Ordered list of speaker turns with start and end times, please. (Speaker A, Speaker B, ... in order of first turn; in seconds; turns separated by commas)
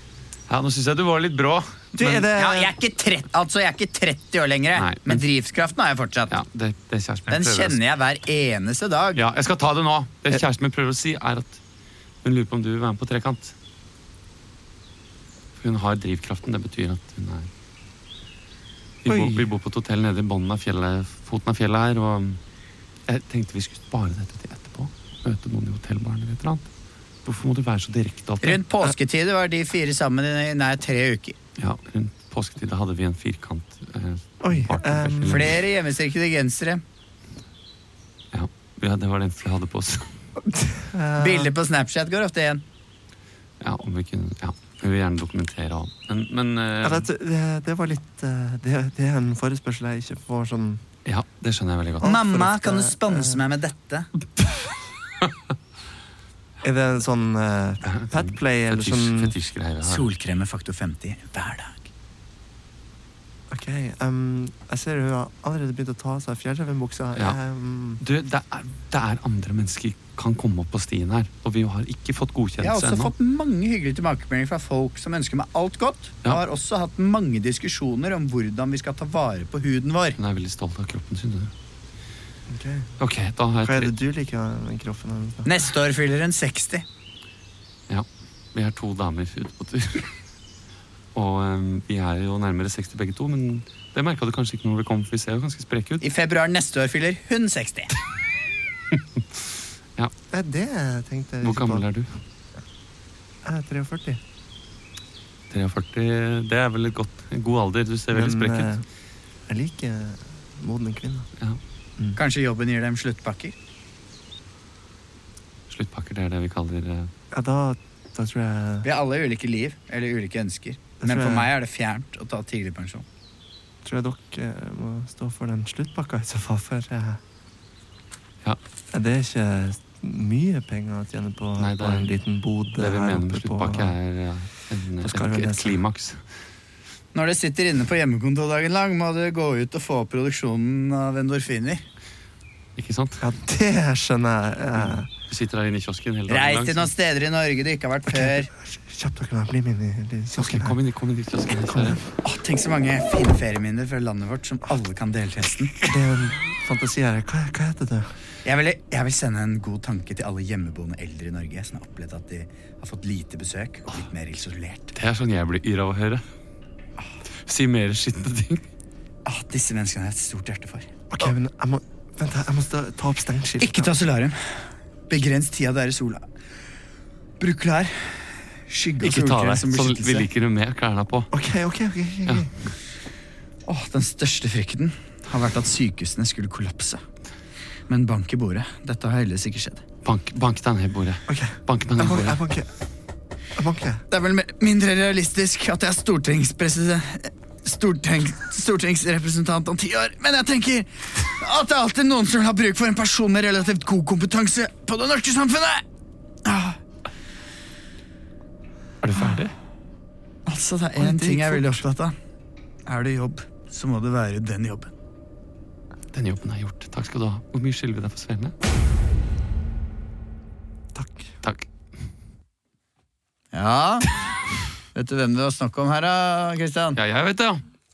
Speaker A: 0.5-2.3, Speaker B: 1.9-2.7, Speaker C: 2.3-6.4, Speaker A: 4.8-5.2, Speaker A: 6.3-7.8, Speaker C: 7.3-9.2, Speaker A: 9.1-11.6, Speaker A: 12.2-13.6, Speaker A: 15.6-17.5, Speaker A: 19.1-22.4, Speaker B: 19.1-19.5, Speaker A: 23.1-26.7, Speaker A: 27.2-28.6, Speaker C: 28.4-31.4, Speaker A: 31.6-35.6, Speaker B: 34.4-35.5, Speaker C: 35.3-36.8, Speaker A: 38.3-40.1, Speaker B: 40.7-41.5, Speaker C: 41.2-42.6, Speaker A: 43.6-47.1, Speaker B: 46.8-50.8, Speaker A: 51.0-52.1, Speaker B: 52.0-53.4, Speaker C: 52.0-54.1, Speaker B: 56.6-59.4, Speaker A: 57.8-60.1, Speaker C: 59.8-61.9, Speaker B: 63.5-68.0, Speaker A: 68.0-73.1, Speaker C: 72.6-80.2, Speaker A: 80.2-81.5, Speaker B: 82.5-82.9, Speaker A: 83.0-83.9, Speaker B: 83.6-85.5, Speaker C: 85.5-86.8, Speaker A: 87.9-90.1, Speaker A: 91.1-96.0, Speaker C: 96.0-97.9, Speaker A: 98.9-99.2, Speaker B: 100.3-101.9, Speaker A: 101.4-102.1, Speaker B: 103.5-104.2, Speaker A: 105.5-108.7, Speaker B: 108.1-108.8, Speaker B: 109.5-111.3, Speaker C: 112.2-113.5, Speaker A: 115.7-117.1, Speaker B: 117.3-118.9, Speaker C: 118.8-123.0, Speaker B: 121.0-121.5, Speaker B: 123.8-127.2, Speaker B: 128.9-133.9, Speaker A: 131.6-132.1, Speaker A: 132.8-136.2, Speaker B: 135.0-135.8, Speaker C: 137.1-141.8, Speaker A: 142.8-143.2, Speaker B: 143.2-145.1, Speaker A: 145.2-146.9, Speaker C: 146.3-148.5, Speaker B: 148.1-150.8, Speaker A: 150.4-152.0, Speaker B: 151.6-152.0, Speaker C: 152.2-155.7, Speaker B: 155.9-158.1, Speaker C: 158.4-164.9, Speaker A: 164.9-166.2, Speaker A: 167.4-168.6, Speaker C: 169.3-170.9, Speaker B: 171.1-173.9, Speaker C: 173.6-174.4, Speaker C: 175.1-176.2, Speaker C: 177.4-180.3, Speaker A: 179.0-181.3, Speaker B: 181.3-182.5, Speaker C: 183.7-187.0, Speaker C: 187.9-189.8, Speaker A: 190.1-192.4, Speaker B: 191.3-192.7, Speaker B: 193.6-194.0, Speaker C: 194.1-205.8, Speaker C: 206.4-206.8, Speaker A: 209.0-209.5, Speaker C: 210.5-212.1, Speaker B: 211.0-211.8, Speaker C: 212.9-214.9, Speaker A: 216.1-218.5, Speaker B: 220.9-221.3, Speaker C: 223.5-224.1, Speaker C: 224.9-227.0, Speaker A: 226.9-227.6